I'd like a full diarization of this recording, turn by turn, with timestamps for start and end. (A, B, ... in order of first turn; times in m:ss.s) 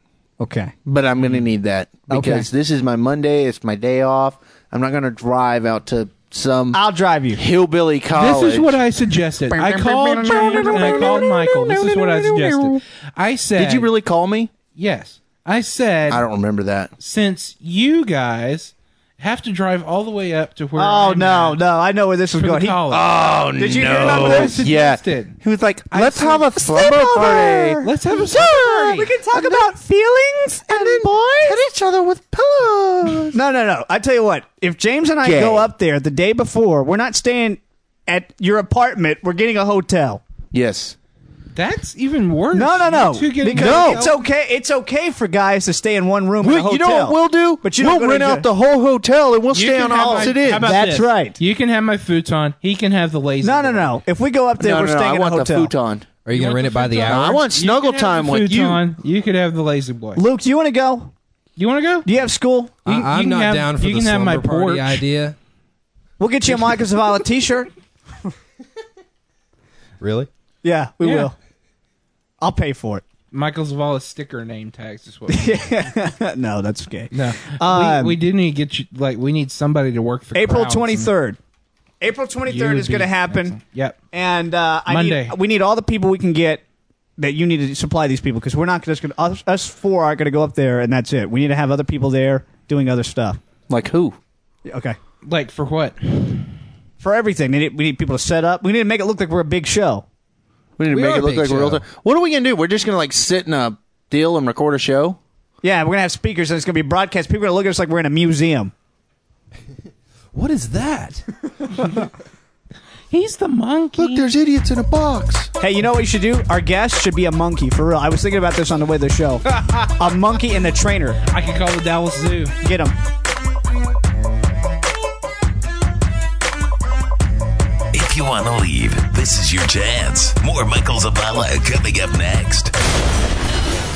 0:00.4-0:00.7 A
0:00.8-0:06.8 B
0:02.1-0:02.5 A
0:06.7-0:07.4 A
0:07.4-0:08.8 B
0:08.1-0:13.9 C
0:09.5-0:12.8 B
0:10.3-0:11.2 A
0:13.6-0:14.5 B
0:14.7-0:16.2 C
0:16.1-0:16.9 B
0:17.0-0:21.6 C
0:20.8-0:22.8 A
0:22.4-0:23.1 C
0:22.9-0:28.4 B
0:23.6-0:24.6 A
0:23.8-0:25.4 C
0:25.9-0:26.5 C
0:26.6-0:31.6 A
0:27.8-0:29.1 C
0:29.3-0:29.7 B
0:30.7-0:33.4 B
0:33.3-0:40.2 A
0:35.2-0:35.7 B
0:40.5-0:41.0 B
0:41.5-0:44.1 C
0:42.5-0:48.5 A
0:43.5-0:44.0 B
0:46.4-0:50.8 B
0:49.5-0:53.9 C
0:49.9-0:51.4 A
0:53.4-0:55.7 A
0:54.6-0:56.1 B
0:56.2-0:57.4 D
0:56.3-1:00.2 C
0:57.0-0:58.8 B
1:00.2-1:01.1 A
1:01.6-1:02.1 C
1:02.0-1:02.7 A
1:02.8-1:05.0 C
1:02.8-1:05.4 D
1:06.2-1:07.7 A
1:10.0-1:10.3 D
1:10.6-1:11.3 A
1:11.0-1:11.3 C
1:12.4-1:13.0 A
1:13.3-1:15.9 C
1:15.3-1:18.2 A
1:17.1-1:21.1 C
1:20.3-1:21.4 A
1:22.0-1:23.6 A
1:22.5-1:24.0 C
1:24.1-1:26.6 A
1:24.9-1:25.4 C
1:27.2-1:33.4 A
1:33.7-1:34.2 B
1:34.6-1:35.0 A
1:35.2-1:36.5 C
1:37.0-1:40.0 A
1:40.8-1:45.2 B
1:40.9-1:41.8 D
1:45.6-1:48.7 A
1:50.3-1:51.9 D
1:53.1-1:54.3 C
1:54.0-1:55.5 B
1:55.6-2:01.2 A
2:01.3-2:02.6 C
2:02.6-2:02.9 A
2:07.9-2:12.7 E